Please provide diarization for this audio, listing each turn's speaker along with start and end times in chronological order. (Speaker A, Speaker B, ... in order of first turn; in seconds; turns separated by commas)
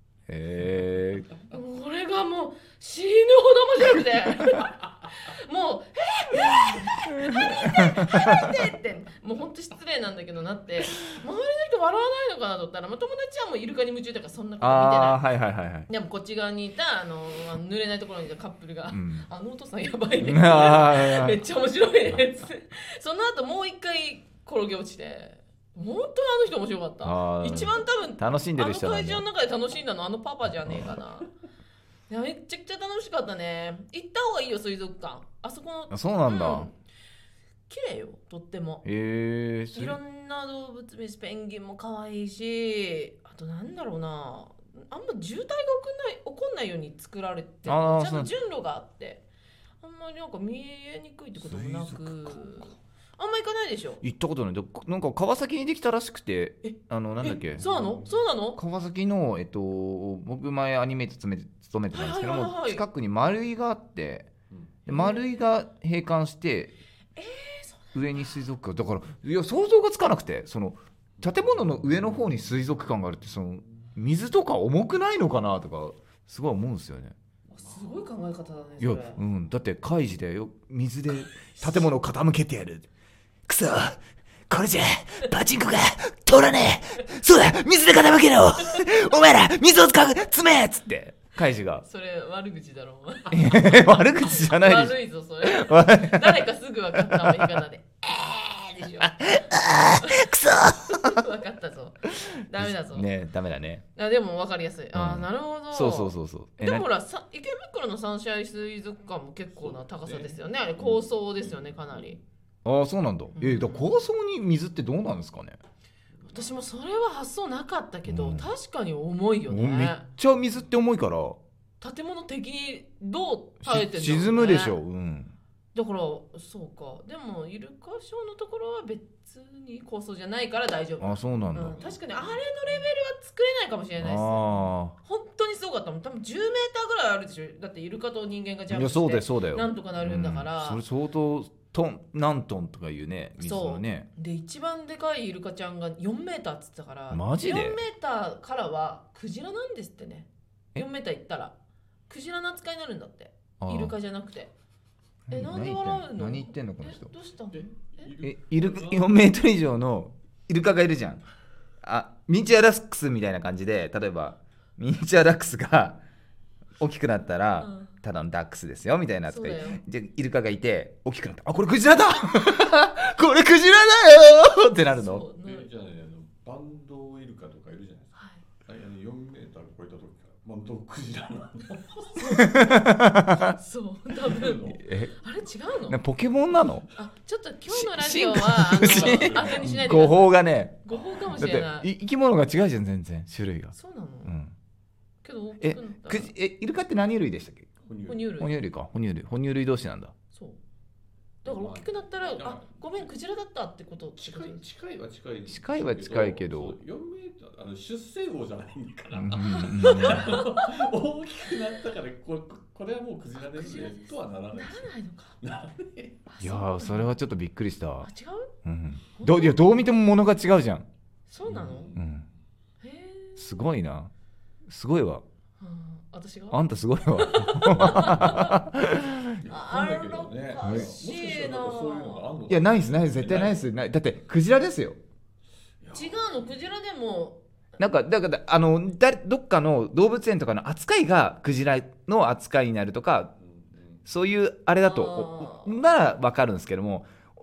Speaker A: 0.3-1.3, Speaker B: 1.5-15.2, Speaker A: 6.7-8.5, Speaker A: 14.6-15.9, Speaker B: 15.9-31.3, Speaker A: 18.9-19.3, Speaker A: 20.2-21.4, Speaker A: 27.0-29.2, Speaker B: 32.1-36.7, Speaker A: 35.9-36.7, Speaker B: 37.7-38.8, Speaker A: 38.8-40.0, Speaker B: 39.7-49.2, Speaker A: 47.6-48.3, Speaker B: 49.8-54.0, Speaker A: 51.5-52.4, Speaker A: 54.0-57.6, Speaker B: 56.6-58.6, Speaker C: 57.6-58.1, Speaker A: 58.5-64.3, Speaker B: 61.9-62.8, Speaker A: 64.8-66.7, Speaker B: 64.9-65.4, Speaker B: 67.2-68.4, Speaker A: 67.9-77.1, Speaker C: 71.2-72.5, Speaker C: 73.3-73.9, Speaker B: 77.5-79.2, Speaker A: 78.8-82.9, Speaker A: 83.5-91.8, Speaker B: 91.8-99.4, Speaker A: 93.3-96.4, Speaker A: 96.9-97.6, Speaker A: 99.0-101.2, Speaker B: 100.0-103.1, Speaker A: 102.5-103.8, Speaker B: 104.0-112.2, Speaker A: 104.9-106.9, Speaker C: 109.5-112.2, Speaker A: 112.6-115.6, Speaker B: 113.3-113.9, Speaker C: 116.2-116.5, Speaker B: 116.3-120.0, Speaker A: 118.1-118.5, Speaker A: 119.5-121.4, Speaker B: 121.8-124.8, Speaker A: 123.6-125.3, Speaker B: 125.7-140.8, Speaker A: 131.0-131.8, Speaker C: 131.6-132.8, Speaker A: 134.0-134.9, Speaker A: 138.7-144.1, Speaker B: 143.4-151.5, Speaker A: 147.1-147.8, Speaker B: 152.1-154.5, Speaker A: 153.6-153.9, Speaker A: 155.3-157.1, Speaker B: 155.3-158.1, Speaker C: 157.5-159.2, Speaker A: 158.2-161.2, Speaker A: 161.8-166.0, Speaker A: 166.8-175.2, Speaker B: 167.6-167.9, Speaker B: 169.3-169.8, Speaker B: 174.8-175.7, Speaker C: 175.4-182.4, Speaker B: 178.2-178.4, Speaker B: 182.2-182.9, Speaker A: 182.4-183.6, Speaker B: 183.5-186.0, Speaker C: 184.2-184.8, Speaker A: 184.8-185.1, Speaker A: 185.9-186.9, Speaker B: 186.9-190.3, Speaker A: 187.7-194.5, Speaker C: 188.7-189.8, Speaker B: 190.8-191.9, Speaker C: 190.9-191.2, Speaker B: 193.7-194.3, Speaker B: 195.2-196.3, Speaker A: 195.6-197.7, Speaker C: 197.8-198.2, Speaker B: 198.1-198.5, Speaker A: 198.4-200.1, Speaker B: 200.3-200.6, Speaker B: 201.4-204.6, Speaker C: 201.4-203.1, Speaker C: 204.2-216.2, Speaker A: 205.5-206.8, Speaker A: 209.1-210.4, Speaker B: 209.6-210.7, Speaker B: 213.4-215.4, Speaker B: 216.3-217.2, Speaker A: 216.4-218.1, Speaker B: 218.0-218.5, Speaker A: 218.6-220.8, Speaker B: 219.2-219.7, Speaker B: 221.3-221.9, Speaker C: 221.4-222.2, Speaker A: 221.9-222.2, Speaker B: 222.8-223.7, Speaker A: 223.4-224.1, Speaker A: 224.7-225.2, Speaker B: 225.6-228.6, Speaker A: 226.5-229.4, Speaker C: 228.0-228.4, Speaker C: 229.4-233.7, Speaker B: 229.4-232.2, Speaker A: 230.6-230.9, Speaker A: 232.5-235.0, Speaker C: 235.8-236.5, Speaker B: 235.9-237.4, Speaker A: 237.8-243.3, Speaker C: 243.4-244.0, Speaker A: 244.1-247.1, Speaker B: 244.8-245.8